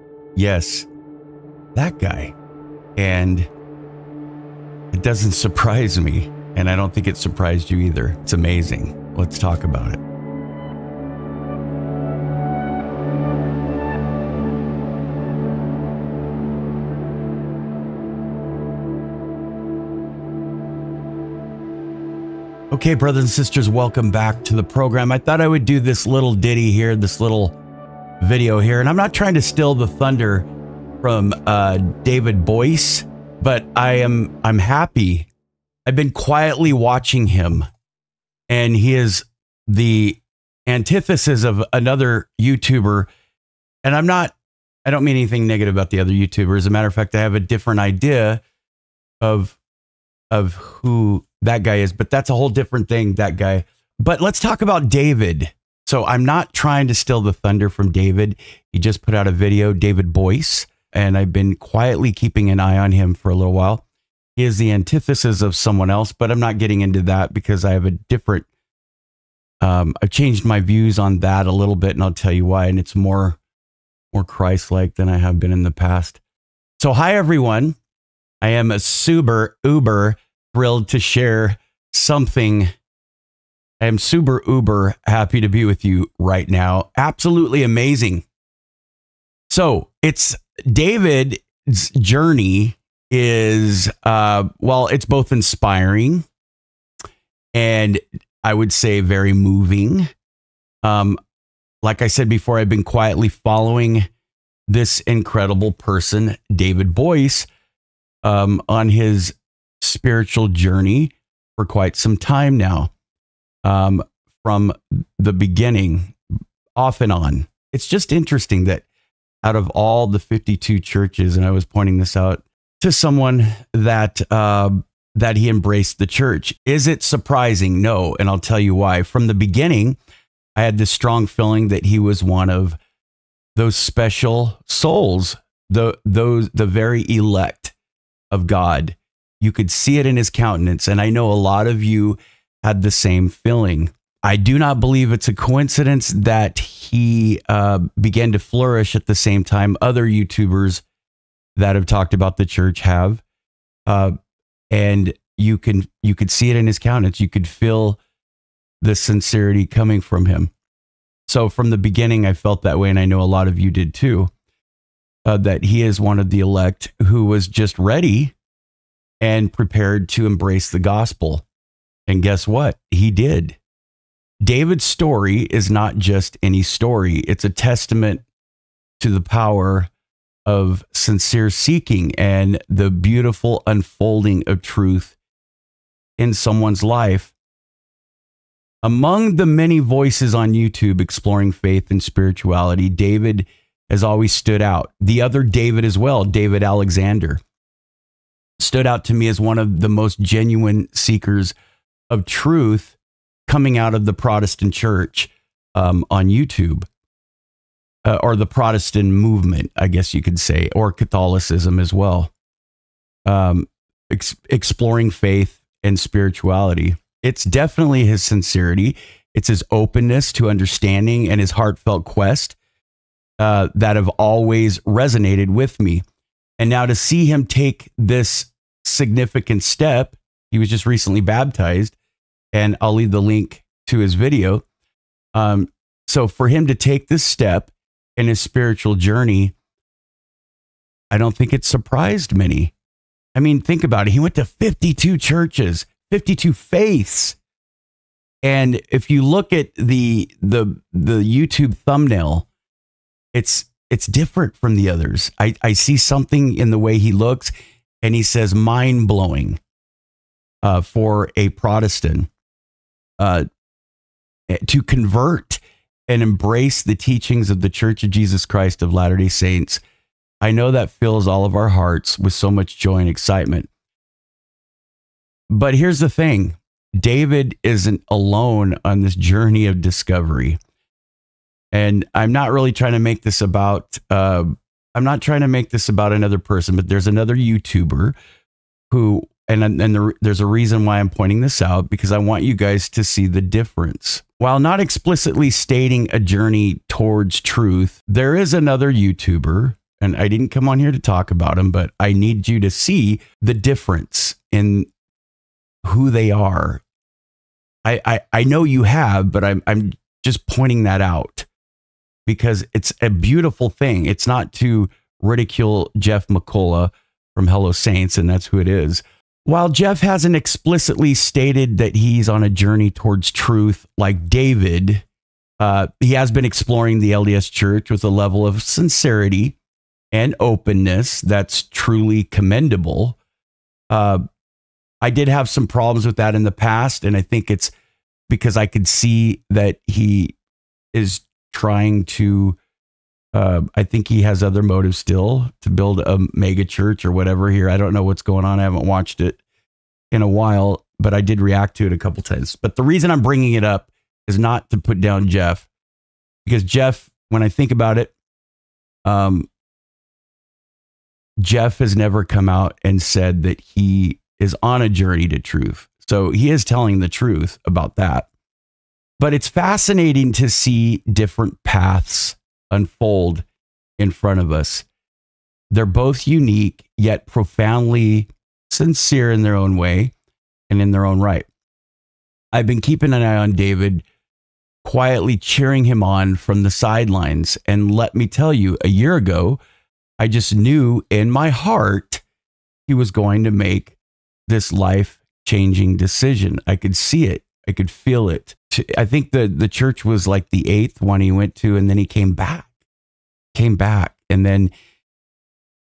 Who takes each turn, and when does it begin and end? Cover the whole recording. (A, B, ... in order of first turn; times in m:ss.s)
0:00.4-0:00.9 A
0:01.8-0:02.3 A
0:03.0-0:03.5 A
0:04.9-0:10.0 A
0:22.7-0:27.6 A
0:28.2-0:30.5 A
0:31.0-0:35.3 A
0:35.9-0:37.7 A
0:38.5-0:43.1 A
0:43.8-0:44.3 A
0:44.8-0:48.4 A
0:49.2-0:49.6 A
0:50.3-1:03.8 A
1:04.4-1:08.5 A
1:09.6-1:13.4 A
1:14.1-1:16.2 A
1:16.8-1:17.8 A
1:18.4-1:22.7 A
1:23.8-1:28.2 A
1:29.5-1:36.2 A
1:37.6-1:40.1 A
1:40.8-1:41.2 A
1:41.8-1:44.1 A
1:44.7-1:47.5 A
1:48.2-1:52.9 A
1:53.6-1:56.1 A
1:56.8-1:58.8 A
1:59.4-2:10.0 A
2:10.6-2:12.8 A
2:13.6-2:17.8 A
2:18.3-2:30.8 A
2:31.6-2:33.2 A
2:33.9-2:34.1 A
2:34.7-2:38.0 A
2:38.8-2:40.5 A
2:41.3-2:44.3 A
2:45.2-2:48.3 A
2:49.2-2:51.4 A
2:52.1-2:53.6 A
2:54.4-2:58.2 A
2:59.0-2:59.9 A
3:00.5-3:05.2 A
3:06.2-3:07.3 A
3:08.8-3:17.4 A
3:18.6-3:21.5 A
3:22.1-3:23.0 A
3:23.5-3:26.8 A
3:28.0-3:32.3 A
3:33.2-3:42.6 A
3:43.4-3:46.0 A
3:46.6-3:52.0 A
3:52.5-3:54.6 A
3:55.3-3:59.5 A
4:01.1-4:02.7 A
4:03.3-4:07.4 A
4:08.4-4:12.5 A
4:13.3-4:19.6 A
4:20.6-4:22.3 A
4:23.2-4:23.4 A
4:24.5-4:29.8 A
4:30.4-4:33.7 A
4:35.5-4:40.6 A
4:41.7-4:48.2 A
4:48.9-5:04.9 A
5:05.8-5:06.8 A
5:07.8-5:11.4 A
5:12.3-5:25.0 A
5:25.6-5:29.6 A
5:30.1-5:33.2 A
5:33.9-5:34.2 A
5:35.0-5:37.7 A
5:38.3-5:40.3 A
5:40.9-5:42.6 A
5:43.3-5:49.4 A
5:50.1-5:55.7 A
5:56.4-5:58.1 A
5:59.1-5:59.5 A
6:01.4-6:08.3 A
6:09.2-6:13.4 A
6:14.0-6:14.9 A
6:15.7-6:20.1 A
6:20.7-6:21.5 A
6:22.5-6:24.0 A
6:24.8-6:29.6 A
6:30.2-6:32.2 A
6:32.9-6:34.0 A
6:34.5-6:42.7 A
6:43.5-6:44.7 A